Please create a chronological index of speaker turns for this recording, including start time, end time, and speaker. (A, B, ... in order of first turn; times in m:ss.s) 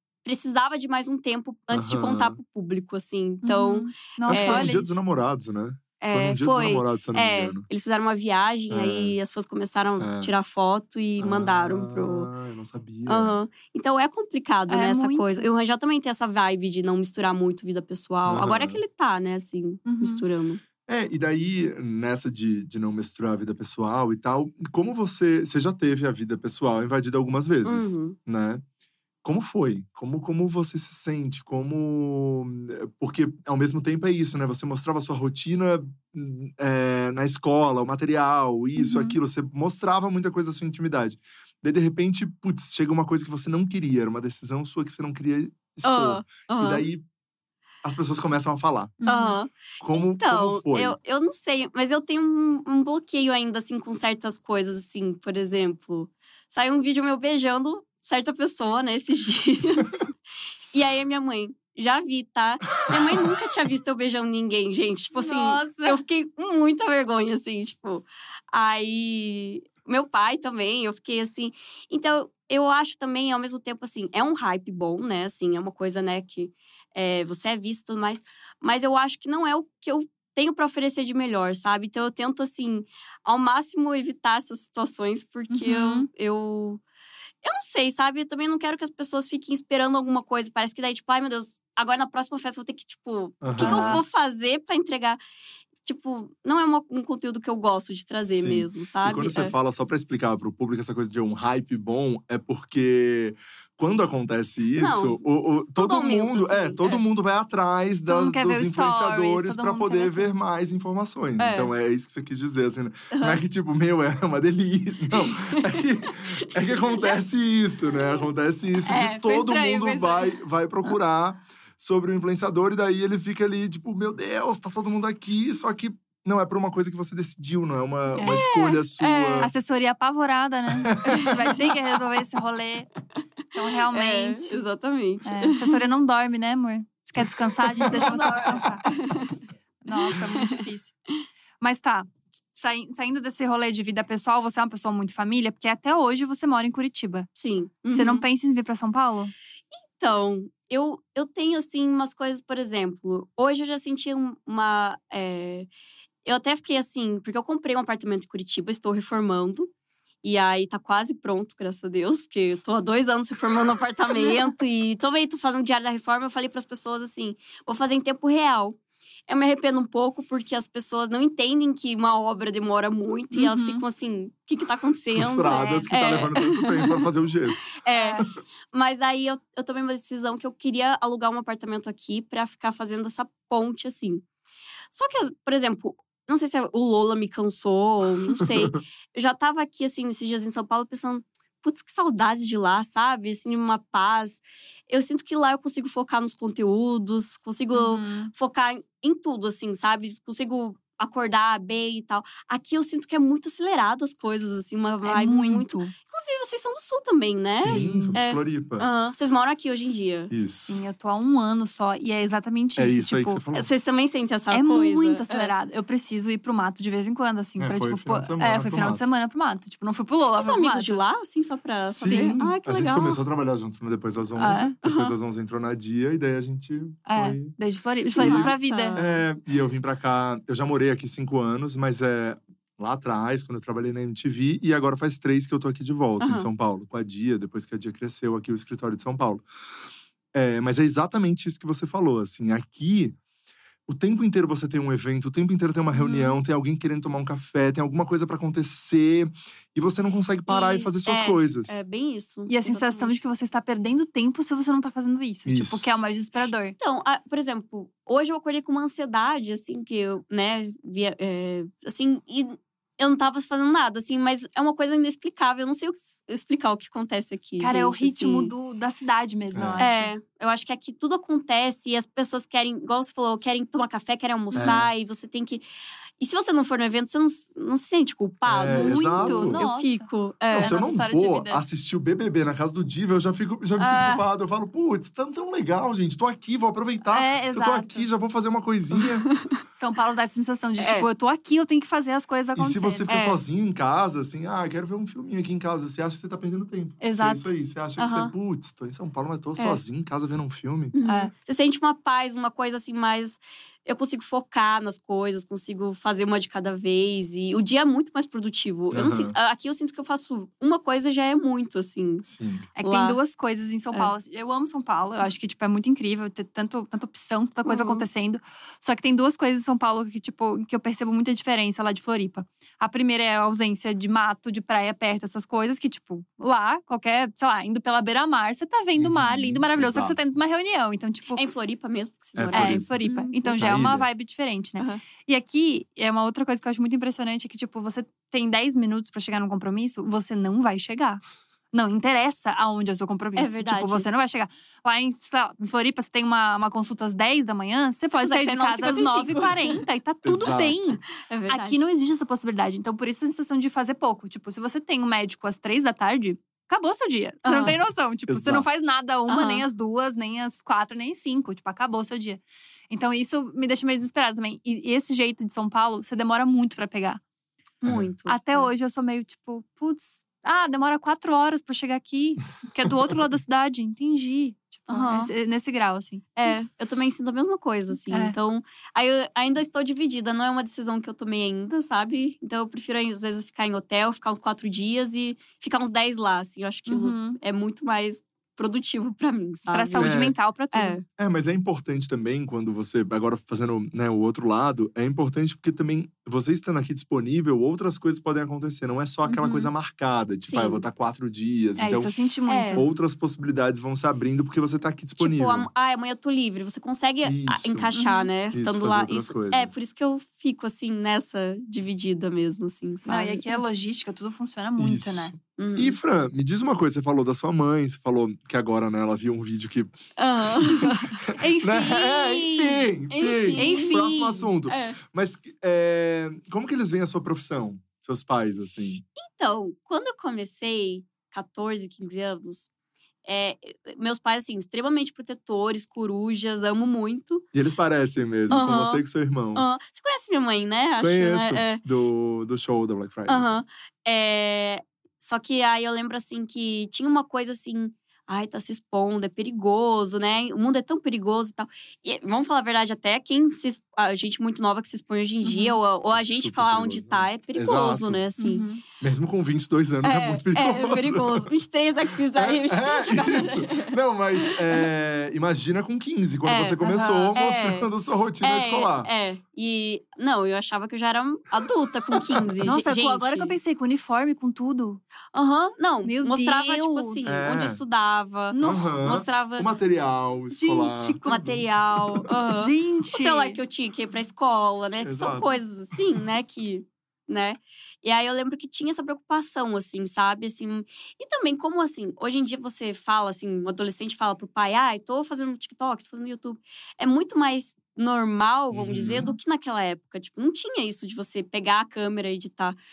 0:00.2-0:04.7 A
0:01.7-0:02.4 B
0:03.4-0:05.0 C
0:04.3-0:07.6 B
0:06.0-0:12.3 A
0:08.7-0:09.2 B
0:10.0-0:10.3 B
0:11.2-0:13.4 B
0:13.1-0:20.6 A
0:14.7-0:15.5 C
0:18.2-0:18.8 B
0:19.8-0:20.2 C
0:20.8-0:28.6 B
0:27.6-0:28.2 A
0:29.2-0:47.0 B
0:38.8-0:39.2 C
0:45.8-0:46.8 A
0:47.8-0:49.0 B
0:49.0-0:49.4 C
0:49.1-1:00.0 A
0:49.8-0:51.0 B
1:00.7-1:26.8 A
1:02.8-1:03.2 B
1:05.1-1:06.0 C
1:25.5-1:26.1 C
1:27.4-1:35.2 A
1:33.4-1:34.0 B
1:33.6-1:34.0 C
1:35.8-1:39.5 A
1:38.3-2:09.5 B
1:44.8-1:45.2 A
1:45.8-1:47.0 A
1:48.1-1:50.3 C
1:51.4-1:51.7 A
1:53.1-1:53.4 A
1:55.3-1:55.6 A
1:56.8-1:57.1 A
1:58.8-2:00.1 A
1:59.2-2:00.1 C
2:08.2-2:08.5 C
2:08.2-2:09.5 A
2:09.4-2:12.9 C
2:10.8-2:11.3 B
2:11.1-2:11.5 A
2:13.5-2:14.6 C
2:13.9-2:15.8 A
2:15.2-2:18.8 C
2:17.8-2:18.1 B
2:17.8-2:19.4 A
2:19.8-2:20.9 C
2:20.1-2:20.6 A
2:21.6-2:27.3 C
2:27.4-2:28.2 A
2:27.9-2:29.3 C
2:30.0-2:35.7 A
2:36.2-2:39.7 A
2:40.2-2:57.0 A
2:44.2-2:44.5 C
2:53.3-2:53.8 C
2:55.1-2:57.7 B
2:57.8-3:04.2 A
2:58.0-2:58.2 C
3:04.9-3:30.3 A
3:08.4-3:08.8 B
3:17.7-3:18.3 C
3:25.0-3:25.9 C
3:27.5-3:28.8 B
3:27.6-3:28.2 C
3:30.3-3:30.8 B
3:30.7-3:33.4 C
3:32.8-3:33.7 B
3:33.5-3:35.5 A
3:34.5-3:41.0 C
3:37.6-3:39.1 B
3:40.4-3:43.2 A
3:41.8-3:47.6 B
3:42.0-3:42.3 C
3:44.4-3:44.8 C
3:44.8-3:45.1 A
3:47.0-3:49.2 C
3:48.2-3:49.1 A
3:48.2-3:59.4 B
3:56.2-3:56.5 A
4:00.3-4:03.2 B
4:03.9-4:11.8 B
4:05.9-4:06.3 C
4:10.5-4:13.1 A
4:12.5-4:16.8 C
4:15.4-4:16.0 B
4:16.8-4:28.5 A
4:27.6-4:30.1 C
4:29.5-4:29.9 B
4:29.8-4:35.6 A
4:34.5-4:34.8 C
4:34.5-4:34.9 B
4:36.2-4:40.8 A
4:38.4-4:39.6 B
4:38.7-4:41.6 C
4:40.5-4:49.2 B
4:43.8-4:44.2 C
4:47.1-4:48.1 C
4:49.2-4:49.6 A
4:49.7-4:53.1 C
4:50.8-4:51.1 A
4:52.6-5:00.9 B
4:53.1-4:53.4 A
4:57.0-4:57.5 C
4:58.0-4:58.3 A
5:00.9-5:12.3 A
5:01.0-5:01.3 C
5:08.9-5:09.3 B
5:12.3-5:12.7 B
5:12.8-5:31.4 C
5:12.8-5:13.2 A
5:17.6-5:18.0 A
5:29.0-5:30.3 B
5:31.4-5:33.6 A
5:32.4-5:32.9 B
5:32.5-6:07.2 C
5:33.6-5:34.0 B
5:43.4-5:44.1 A
5:48.1-5:49.8 A
5:50.2-5:50.8 B
5:51.2-5:51.8 A
5:57.4-5:57.8 A
5:58.3-5:58.6 B
5:59.3-5:59.6 A
6:07.8-6:08.7 A
6:08.3-6:16.5 C
6:14.9-6:15.3 A
6:16.4-6:30.2 A
6:18.1-6:18.4 C
6:26.9-6:27.4 C
6:29.7-6:31.0 C
6:30.0-6:30.4 B
6:30.7-6:31.0 A
6:31.2-6:42.1 B
6:39.2-6:39.7 C
6:40.5-6:40.8 A
6:41.8-6:42.8 C
6:42.5-6:42.8 A
6:42.7-6:45.7 B
6:45.2-6:53.6 A
6:47.2-6:47.9 B
6:47.9-6:48.3 C
6:48.5-6:49.7 B
6:53.1-6:55.3 C
6:54.8-7:00.0 B
6:55.6-6:56.0 A
7:00.2-7:01.2 A
7:00.6-7:09.0 B
7:01.3-7:02.9 C
7:03.1-7:04.1 A
7:03.6-7:04.5 C
7:04.6-7:05.0 A
7:09.2-7:12.7 A
7:13.2-7:17.4 A
7:17.5-7:19.6 B
7:18.5-7:19.0 A
7:19.5-7:21.8 A
7:21.0-7:23.6 B
7:23.3-7:38.6 A
7:35.4-7:35.8 C
7:36.1-7:38.2 B
7:38.4-7:38.8 C
7:39.0-7:41.5 B
7:40.0-7:44.8 A
7:42.3-7:49.1 B
7:46.4-7:47.9 A
7:46.8-7:47.3 C
7:48.4-7:53.6 A
7:52.2-7:52.5 B
7:52.6-7:55.0 C
7:55.3-7:59.7 A
7:56.0-7:57.4 C
7:57.2-7:57.8 B
7:58.5-7:58.9 C
7:58.6-8:02.3 B
8:00.5-8:01.4 C
8:01.2-8:22.8 A
8:02.6-8:03.6 C
8:05.0-8:05.6 B
8:18.7-8:19.4 B